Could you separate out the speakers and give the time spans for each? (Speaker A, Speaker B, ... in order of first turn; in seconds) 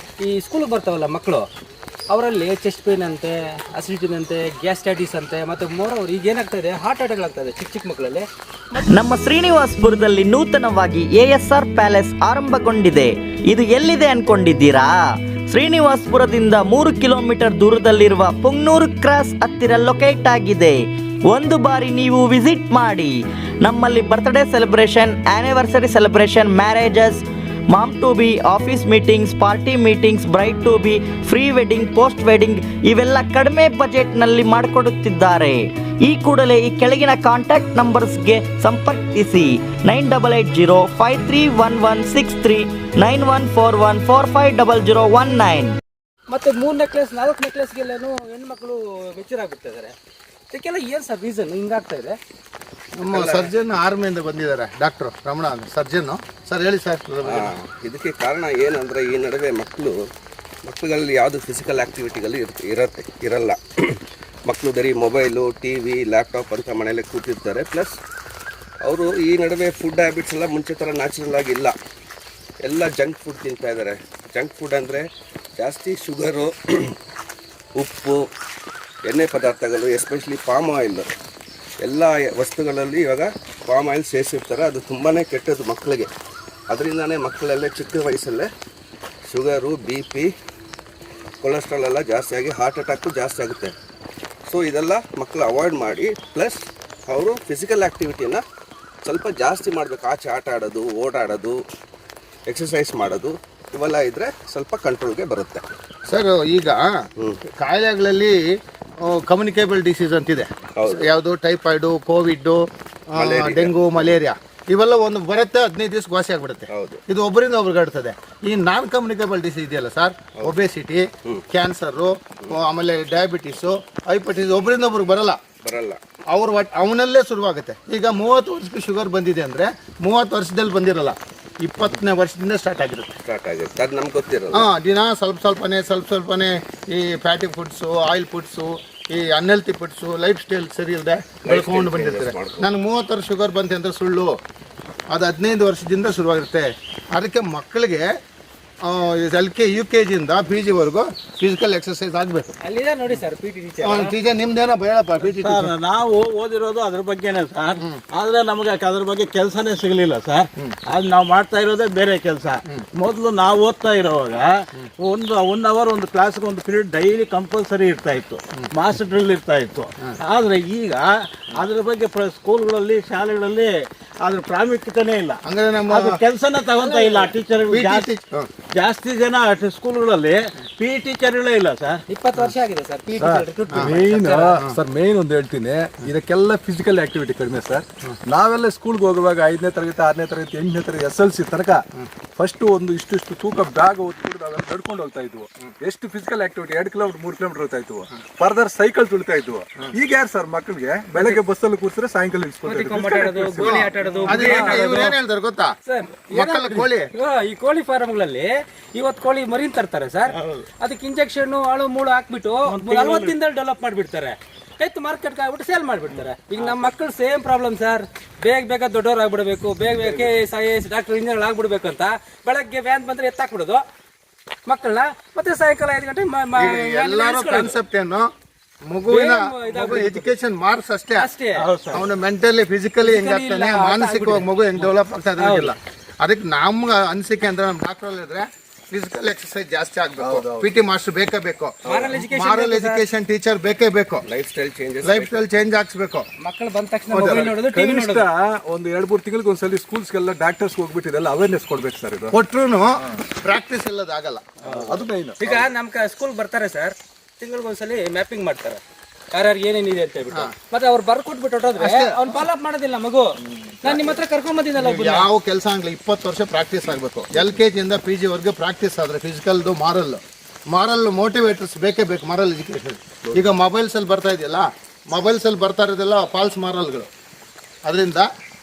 Speaker A: 0.2-1.5, 2.1-8.3, 46.3-49.9, 50.5-52.2, 53.1-53.5, 152.6-154.1, 176.8-177.3, 182.1-184.6, 202.7-205.1, 205.8-223.8, 224.7-227.8, 229.1-230.3, 231.2-231.6, 233.0-235.7, 241.8-243.0, 246.4-248.3, 255.4-258.8, 259.3-263.3, 263.8-265.3
Speaker B: 8.9-45.8
Speaker C: 53.0-57.5, 106.1-106.8, 107.6-108.4, 109.0-125.4, 126.3-133.1, 134.5-144.3, 145.1-148.1, 148.8-152.5, 153.8-155.8, 175.5-176.2, 177.7-178.5, 203.6-205.7, 206.3-207.1, 226.6-228.3, 228.9-231.3, 231.9-244.2, 245.0-246.3, 247.1-247.5, 252.3-254.4, 261.8-262.4, 263.8-264.1, 264.8-277.1, 277.9-278.3
Speaker D: 57.2-60.0, 60.6-68.0, 68.9-71.8, 72.7-75.1, 75.6-77.0, 77.8-78.2, 79.1-81.1, 81.8-86.1, 86.7-88.5, 89.3-90.3, 91.4-93.8, 94.5-98.4, 99.0-101.6, 102.5-105.7, 110.8-111.1, 113.2-114.2, 116.7-117.0, 125.7-126.0, 133.2-134.7, 141.4-142.7, 244.3-245.4
Speaker E: 155.2-178.1, 178.7-182.0, 210.3-210.7, 212.7-213.4, 216.6-216.9, 220.0-220.3, 231.6-232.1
Speaker F: 183.2-191.8, 192.3-205.1, 240.2-240.7, 247.3-252.3, 254.6-255.6